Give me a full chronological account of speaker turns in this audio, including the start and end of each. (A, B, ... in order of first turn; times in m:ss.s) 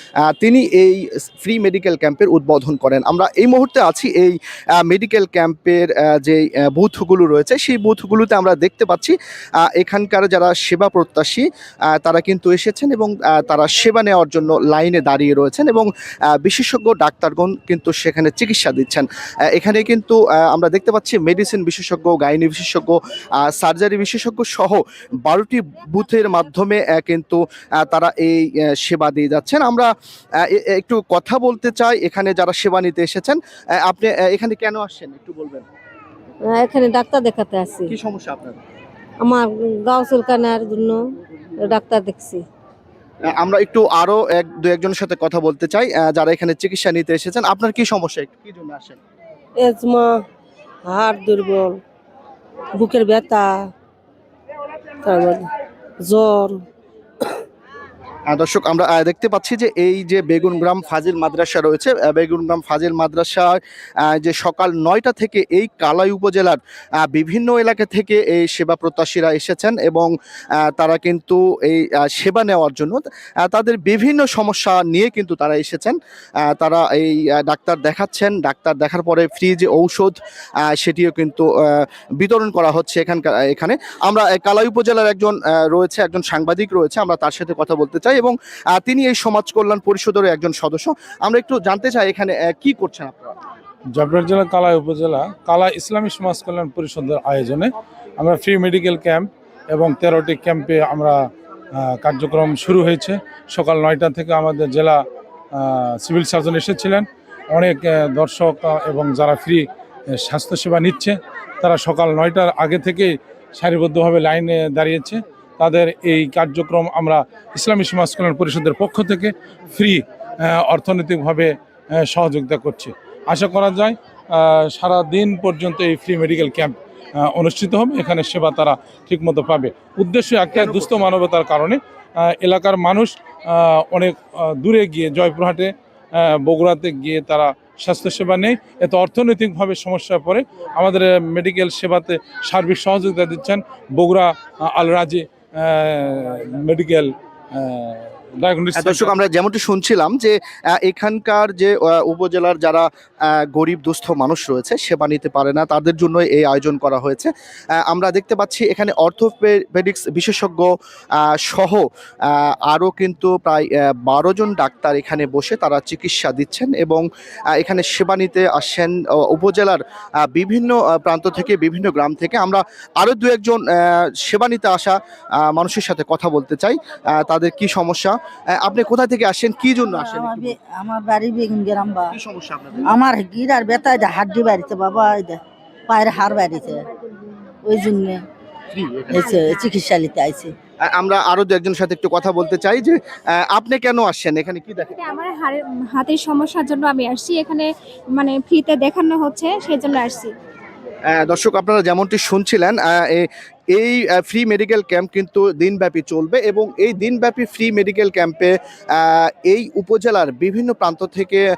0:00.3-0:15.9 A
0:16.4-0:29.9 A
0:30.4-0:35.7 A
0:36.5-0:37.9 B
0:37.9-0:38.6 A
0:39.2-0:41.0 B
0:41.6-0:42.4 B
0:43.3-0:49.0 A
0:49.6-0:50.2 B
0:50.9-0:51.8 B
0:52.8-0:53.5 B
0:55.0-0:55.5 B
0:56.1-0:56.6 B
0:58.3-1:03.6 A
1:04.1-1:10.1 A
1:10.6-1:16.0 A
1:16.5-1:20.2 A
1:20.7-1:33.3 A
1:34.0-1:41.2 C
1:41.8-1:45.0 C
1:45.5-1:49.6 C
1:50.2-2:11.8 C
2:10.5-2:11.1 A
2:12.3-2:29.1 C
2:28.8-2:37.3 A
2:37.9-2:40.7 A
2:41.2-2:55.0 A
2:55.5-3:00.6 A
2:59.9-3:02.1 D
3:02.1-3:02.9 A
3:02.9-3:06.8 D
3:07.7-3:08.2 D
3:08.7-3:09.4 A
3:09.1-3:10.5 D
3:09.3-3:09.6 E
3:10.9-3:15.0 A
3:15.0-3:20.3 E
3:21.1-3:31.4 A